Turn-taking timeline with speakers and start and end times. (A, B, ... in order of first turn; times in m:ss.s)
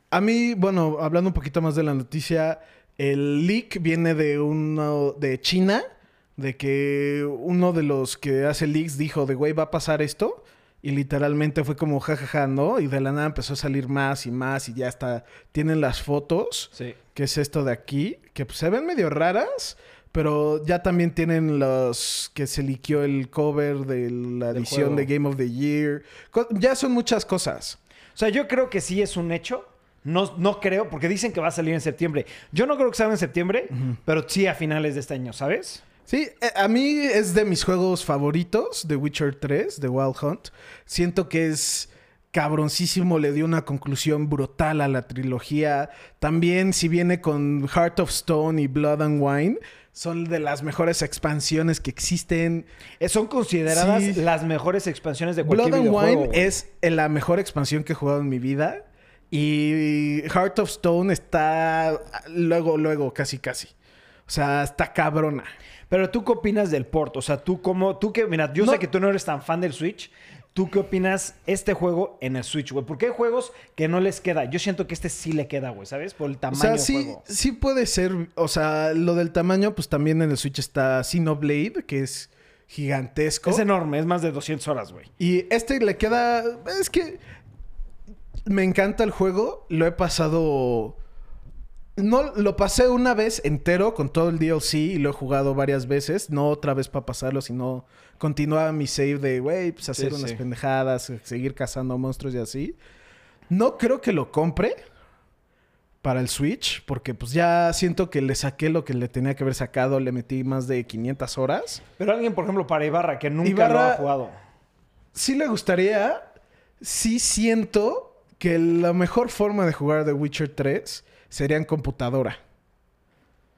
0:00.1-0:27.8 A
0:16.7-0:17.0 B
0:24.5-0:25.1 B
0:28.2-0:35.8 B
0:36.1-0:52.7 A
0:53.0-0:56.6 B
0:53.7-0:54.2 A
0:55.4-1:03.7 A
1:04.3-1:05.6 A
1:05.9-1:17.2 B
1:08.6-1:08.8 A
1:16.5-1:23.6 A
1:23.4-1:25.1 B
1:25.2-1:27.2 A
1:28.4-1:31.0 A
1:32.0-1:42.8 A
1:39.9-1:40.4 B
1:43.5-1:44.8 A
1:46.0-1:51.8 A
1:52.0-1:54.3 B
1:53.4-1:54.0 A
1:55.1-2:02.4 A